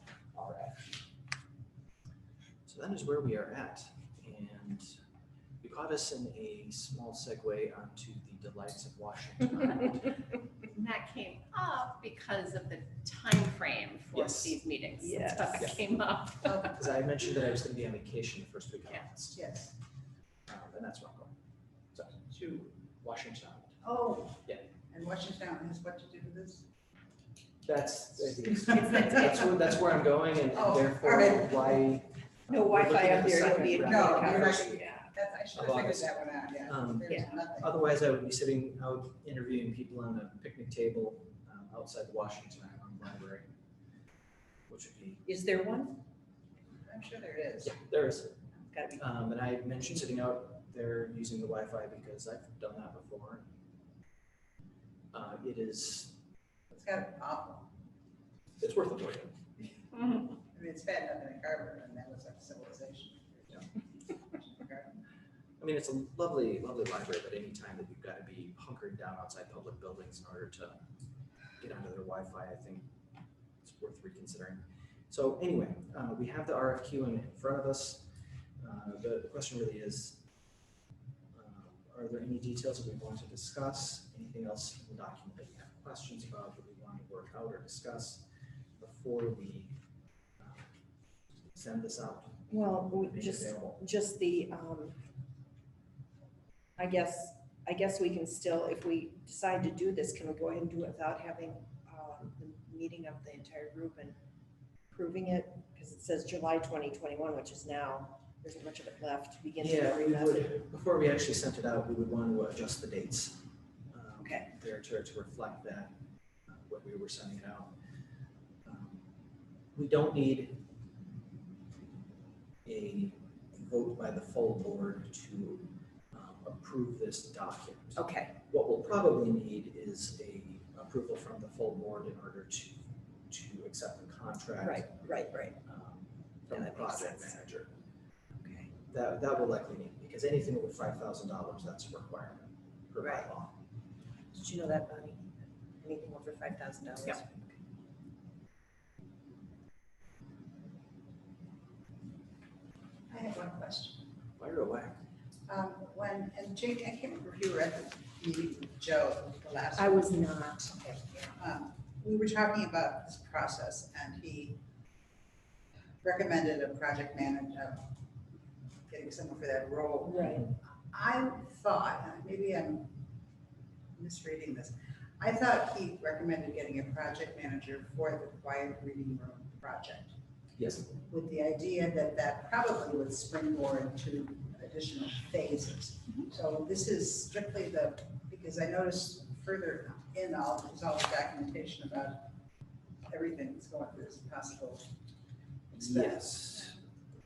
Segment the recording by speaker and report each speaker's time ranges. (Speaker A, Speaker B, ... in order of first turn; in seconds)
Speaker A: 0.3-1.1, 2.7-5.0, 5.6-10.0, 14.1-14.6, 16.4-19.4, 20.5-21.4, 21.9-23.8, 27.6-34.8, 35.5-43.5, 44.7-45.3, 47.6-48.4, 49.0-53.5, 55.1-56.1, 58.6-59.4, 65.6-70.8, 71.6-72.9, 73.6-78.1, 78.6-80.2, 81.3-88.3, 88.8-89.8, 90.4-90.7, 91.5-93.8, 109.6-116.0, 116.5-117.8, 118.7-119.1, 119.7-120.6, 122.7-135.1, 135.6-137.7, 138.9-143.6, 154.4-155.0, 180.6-180.9, 195.8-196.8
Speaker B: 10.7-16.7
Speaker C: 15.0-15.8, 32.5-35.1, 45.3-46.0, 48.7-49.1, 92.5-95.0, 96.8-104.2, 104.9-110.6, 114.2-114.5, 128.0-128.3, 134.6-135.6, 136.5-137.4, 138.4-138.7, 143.0-143.3, 144.3-147.6, 159.8-160.7, 170.1-170.5
Speaker D: 19.3-19.7, 23.8-26.7, 30.5-31.8, 33.7-37.7, 46.8-47.8, 56.7-57.7, 60.4-65.0, 153.1-154.1, 155.5-164.6, 166.0-167.9, 168.9-173.0, 174.0-180.2, 181.1-192.3, 193.1-194.9, 195.7-196.6